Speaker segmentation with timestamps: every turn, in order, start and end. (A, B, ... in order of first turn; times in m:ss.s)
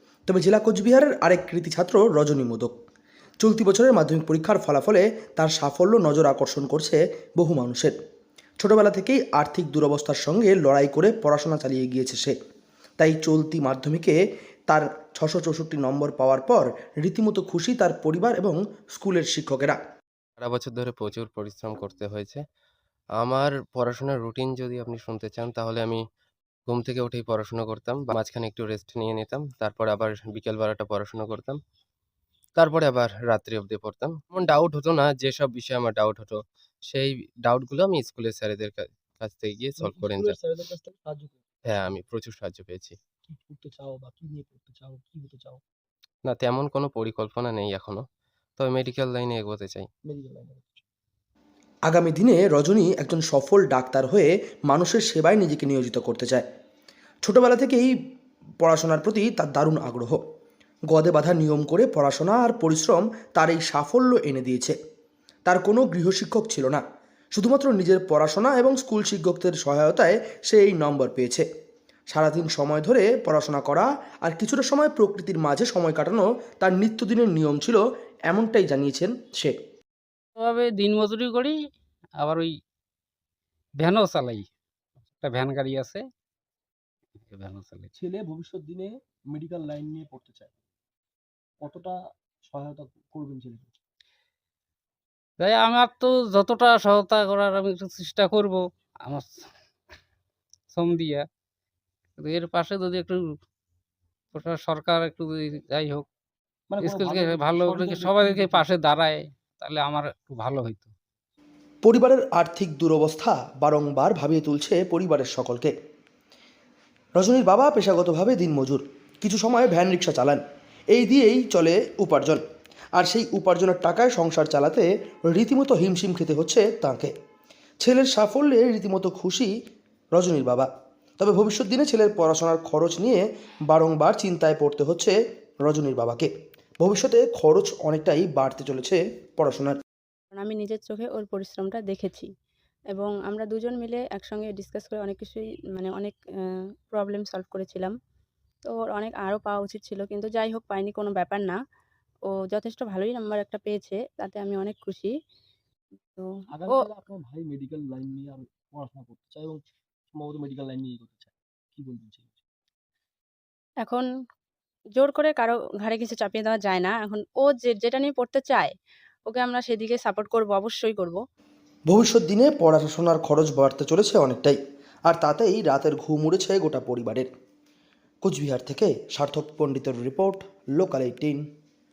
0:00.3-0:02.7 A
0:03.4-0:07.9 A
0:08.6-0:12.4 A
0:13.0-0:19.8 A
0:20.4-0:22.4 B
0:23.2-0:26.0 B
0:26.7-0:31.6 B
0:32.6-0:40.4 B
0:39.8-0:41.4 C
0:41.6-0:43.0 B
0:43.3-0:45.6 C
0:46.3-0:48.0 B
0:48.6-0:49.9 B
0:50.0-0:50.8 C
0:51.9-0:56.4 A
0:57.2-0:57.9 A
0:58.6-1:00.2 A
1:00.9-1:04.8 A
1:05.5-1:06.8 A
1:07.3-1:11.5 A
1:12.1-1:19.6 A
1:20.4-1:21.5 D
1:22.2-1:22.5 D
1:23.8-1:24.5 D
1:25.2-1:26.0 D
1:27.3-1:27.9 D
1:28.0-1:30.6 C
1:31.6-1:32.0 C
1:32.5-1:33.8 C
1:35.4-1:39.3 D
1:40.7-1:41.2 D
1:42.2-1:43.2 D
1:44.4-1:46.1 D
1:46.7-1:48.7 C
1:46.8-1:50.9 D
1:51.8-1:55.7 A
1:57.2-2:02.4 A
2:03.0-2:07.1 A
2:07.8-2:09.5 A
2:10.1-2:19.8 A
2:20.3-2:22.3 E
2:22.9-2:26.2 E
2:26.9-2:27.9 E
2:28.7-2:31.6 E
2:32.3-2:35.1 E
2:36.1-2:36.8 E
2:36.5-2:39.6 C
2:40.1-2:42.4 C
2:45.0-2:48.7 E
2:49.3-2:51.2 E
2:51.9-2:57.3 A
2:58.2-3:01.4 A